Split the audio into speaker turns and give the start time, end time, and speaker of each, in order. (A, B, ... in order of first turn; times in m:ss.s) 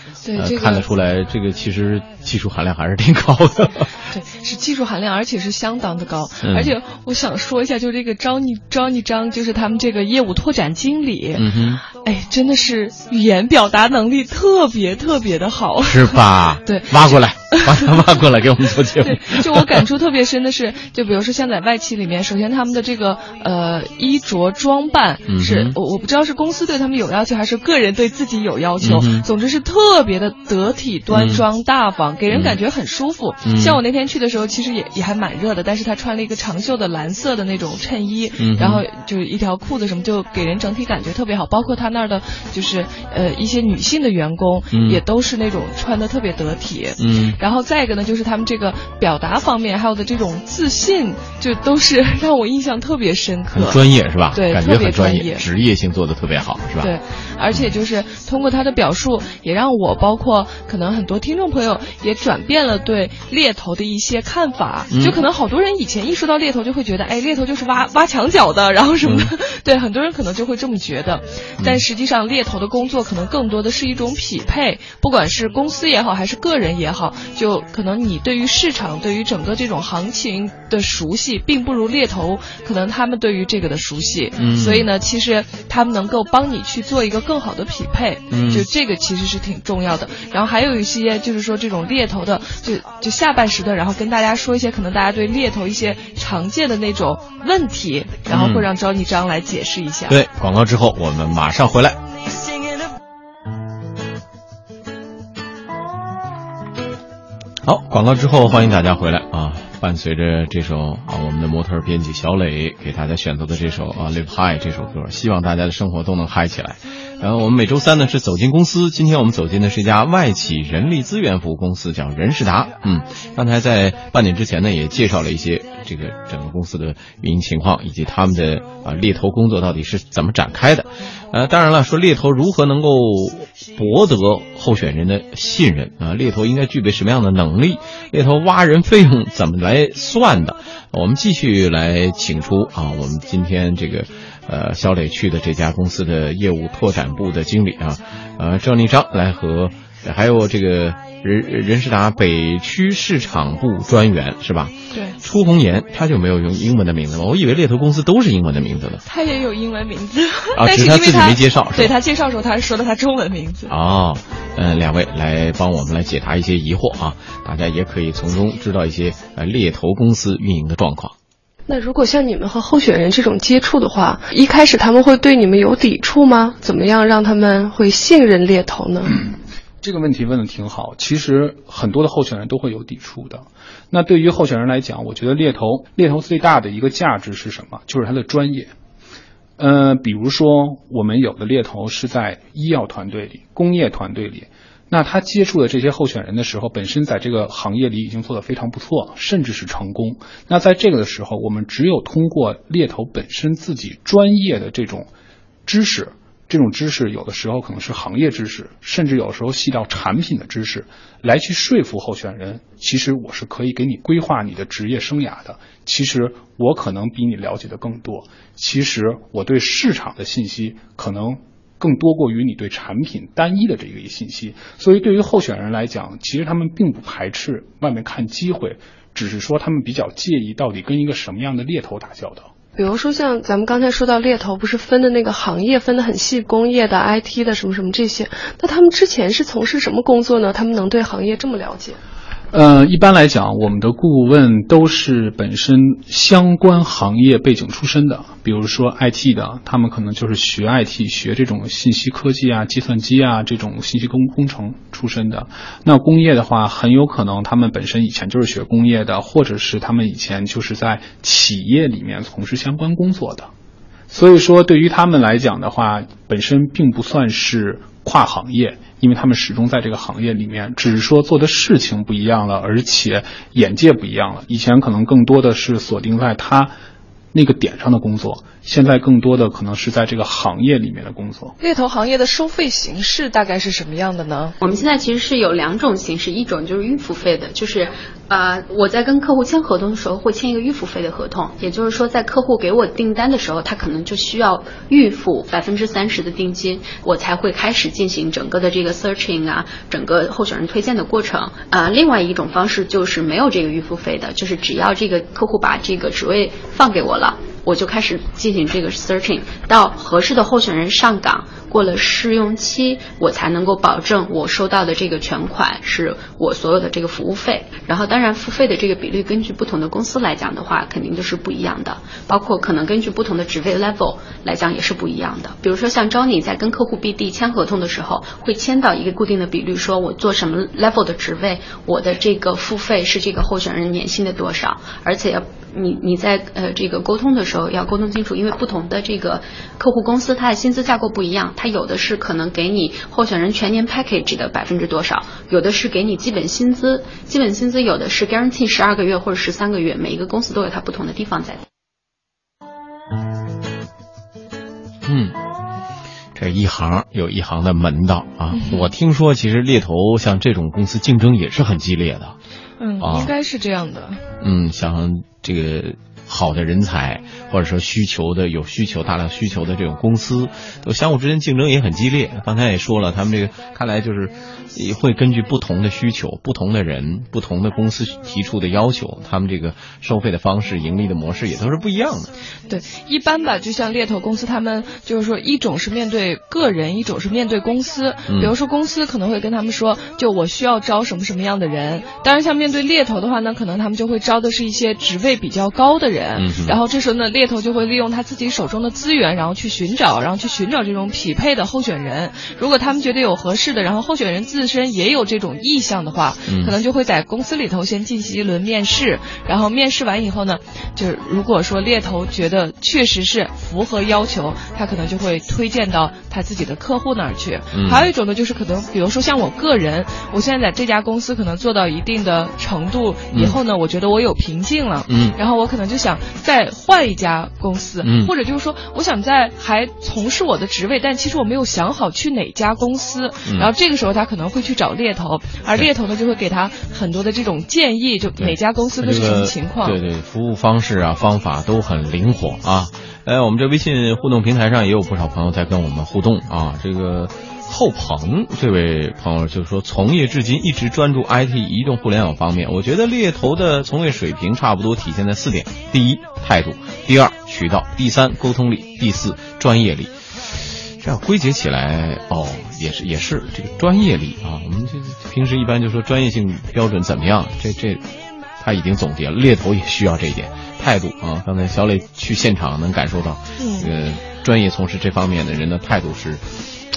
0:00.2-0:00.8 A
0:00.3-0:03.9 B
0:04.1-0:17.9 A
0:06.4-0:06.7 B
0:11.4-0:11.8 B
0:15.8-0:19.8 B
0:19.0-0:53.8 A
0:25.3-0:25.8 B
0:28.8-0:29.2 B
0:31.1-0:31.4 B
0:32.3-0:32.6 B
0:33.4-0:33.8 B
0:38.4-0:38.8 B
0:44.7-0:45.0 B
0:47.0-0:47.4 B
0:53.5-0:56.9 B
0:54.3-0:55.4 A
0:56.8-1:40.2 A
1:04.9-1:05.2 B
1:09.0-1:09.3 B
1:24.4-1:24.9 B
1:28.3-1:28.6 B
1:38.3-1:38.6 B
1:40.1-1:42.0 B
1:47.6-2:39.0 B
2:34.9-2:35.2 A
2:39.0-2:43.7 A
2:40.5-2:41.9 B
2:43.7-2:51.1 B
2:51.7-2:59.2 C
2:59.8-3:08.7 D
3:09.6-3:25.1 D
3:25.6-3:52.5 D
3:52.8-4:02.0 C
4:02.5-4:23.5 D
4:24.1-4:36.7 D
4:37.3-4:41.5 D
4:41.6-4:44.6 A
4:44.6-5:51.6 E
5:55.0-5:55.4 B
5:56.3-6:02.4 B
5:58.5-5:58.9 A
6:02.8-6:04.2 A
6:03.0-6:03.3 B
6:04.4-6:22.3 B
6:22.7-7:20.0 A
6:28.3-6:28.5 B
6:36.4-6:36.8 B
6:46.5-6:46.7 B
6:57.7-6:58.1 B
7:03.3-7:03.6 B
7:05.1-7:05.4 B
7:08.0-7:08.3 B
7:18.4-7:40.1 B
7:41.0-7:48.0 B
7:48.6-7:56.4 B
7:53.6-7:53.9 A